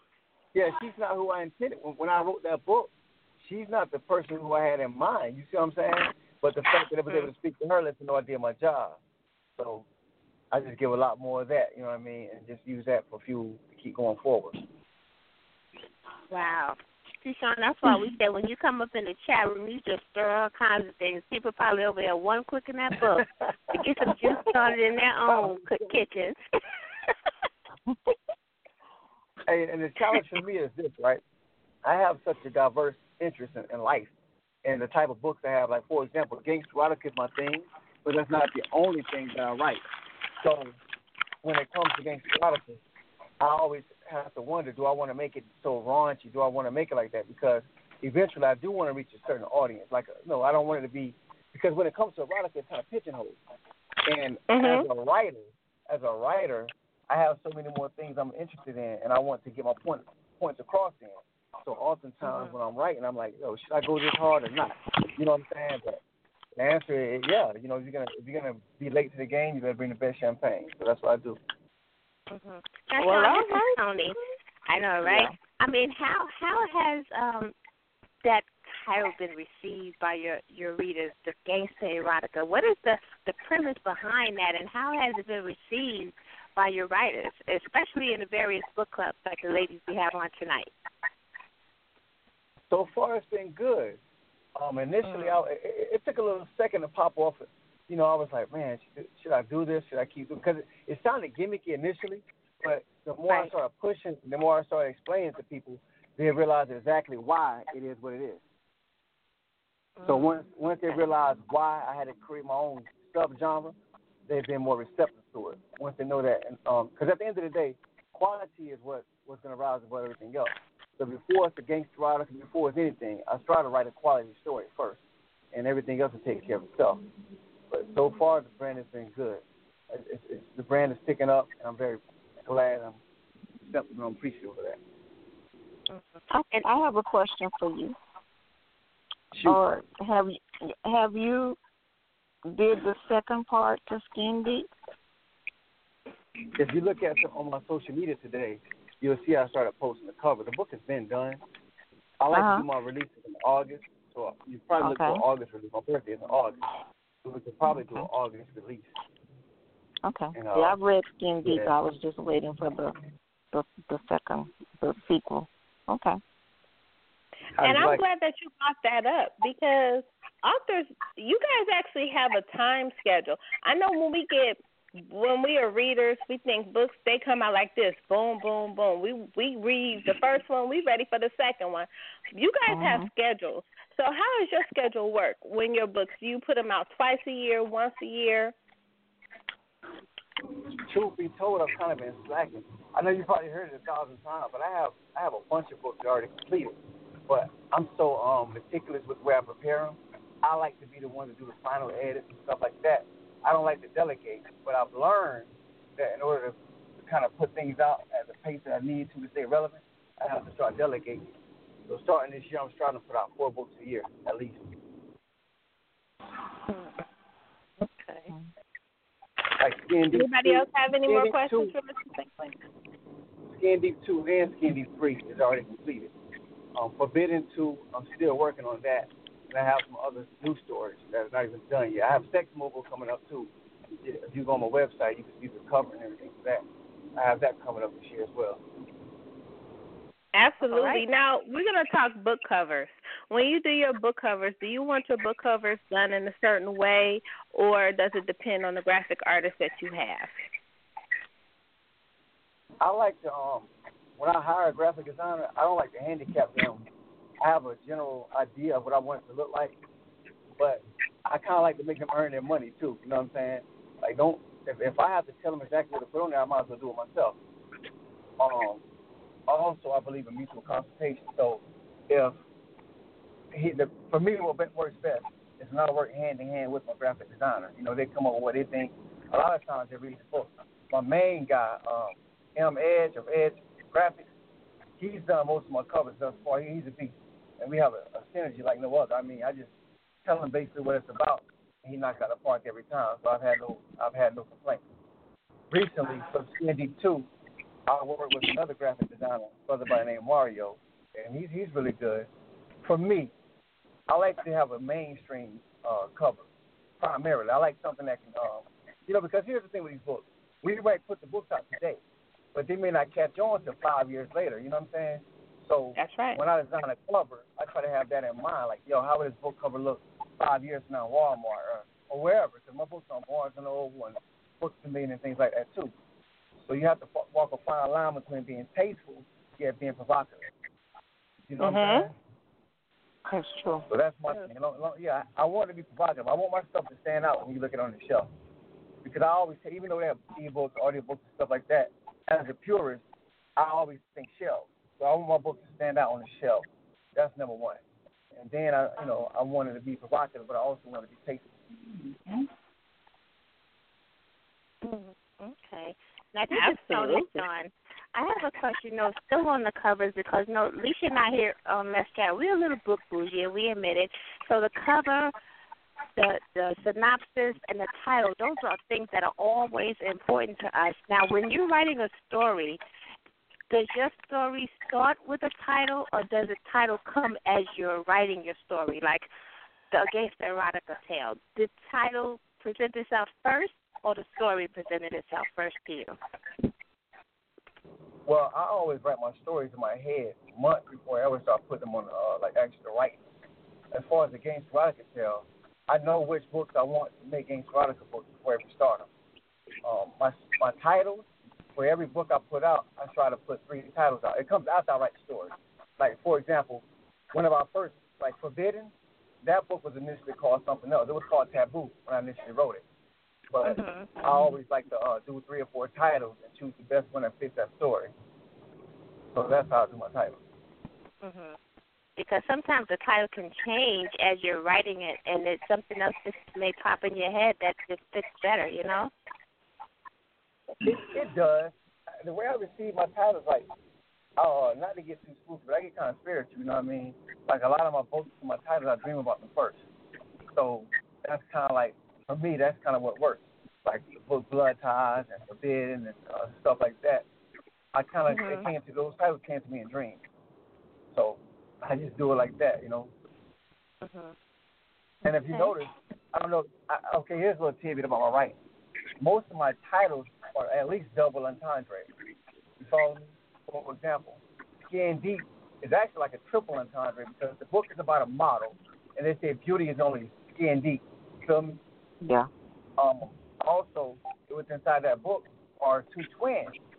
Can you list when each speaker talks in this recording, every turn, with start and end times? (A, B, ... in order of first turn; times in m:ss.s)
0:00.5-0:09.0 A
0:09.6-0:09.8 A
0:10.5-0:14.6 A
0:16.3-0:26.4 B
0:25.3-0:25.8 A
0:29.5-0:31.2 A
0:31.8-0:34.1 A
0:34.6-0:39.8 A
0:40.4-0:40.8 A
0:41.4-0:42.8 A
0:43.4-0:53.4 A
0:54.0-1:06.0 A
0:54.5-0:54.9 C
1:02.2-1:02.6 B
1:06.6-1:11.4 A
1:12.3-1:17.5 B
1:13.0-1:13.8 C
1:18.2-1:30.7 B
1:32.7-1:34.0 A
1:34.6-1:48.4 A
1:35.0-1:35.3 B
1:50.0-1:50.4 B
1:50.0-1:53.7 A
1:54.3-2:05.0 A
2:05.5-2:07.0 A
2:07.7-2:13.0 A
2:13.6-2:14.8 A
2:16.3-2:18.0 D
2:19.3-2:19.6 A
2:19.4-2:21.6 D
2:22.5-2:24.7 D
2:26.6-2:31.4 A
2:32.2-2:36.6 A
2:32.3-2:32.7 D
2:34.8-2:35.2 D
2:37.2-2:38.9 A
2:40.0-2:42.9 D
2:40.3-2:40.8 A
2:41.4-2:41.7 A
2:43.5-2:46.2 D
2:47.6-2:48.0 A
2:47.6-3:08.5 C
3:02.7-3:03.1 D
3:10.8-3:16.8 A
3:17.3-3:31.2 A
3:31.9-3:34.6 A
3:37.8-3:38.3 B
3:39.6-3:41.7 A
3:40.1-3:42.5 C
3:43.5-3:46.1 A
3:46.7-3:53.5 A
3:54.0-3:56.6 A
3:57.2-3:58.6 A
4:00.3-4:10.4 C
4:00.6-4:01.0 B
4:12.8-4:16.9 A
4:17.4-4:19.7 A
4:20.6-4:27.4 A
4:28.4-4:28.8 A
4:29.5-4:32.4 A
4:33.5-4:44.2 A
4:45.0-4:49.7 A
4:50.2-4:54.8 A
4:55.7-4:57.3 A
4:57.9-5:02.3 A
5:02.8-5:03.3 A
5:04.1-5:06.4 A
5:07.0-5:12.0 A
5:12.5-5:25.9 A
5:16.0-5:16.4 C
5:26.6-5:30.5 A
5:31.5-5:32.1 A
5:31.6-5:32.1 C
5:33.3-5:33.8 D
5:33.9-5:38.3 A
5:39.0-5:43.0 A
5:43.6-5:47.8 A
5:48.3-5:51.4 A
5:54.8-6:05.3 B
5:56.5-5:57.3 C
6:06.2-6:12.8 B
6:13.7-6:19.3 B
6:19.9-6:26.2 B
6:28.2-6:33.2 A
6:33.9-6:39.1 A
6:39.8-6:48.9 A
6:49.4-6:52.8 A
6:53.5-6:58.1 A
6:53.6-6:54.5 B
6:59.3-7:00.4 A
7:01.2-7:01.6 B
7:02.2-7:09.1 B
7:10.8-7:13.6 A
7:14.4-7:19.8 A
7:20.5-7:27.2 A
7:27.9-7:30.2 A
7:28.3-7:28.7 B
7:31.1-7:33.1 A
7:34.0-7:34.3 B
7:35.2-7:38.6 A
7:39.2-7:42.1 A
7:42.8-7:51.8 A
7:52.2-7:52.5 D
7:53.0-7:56.8 A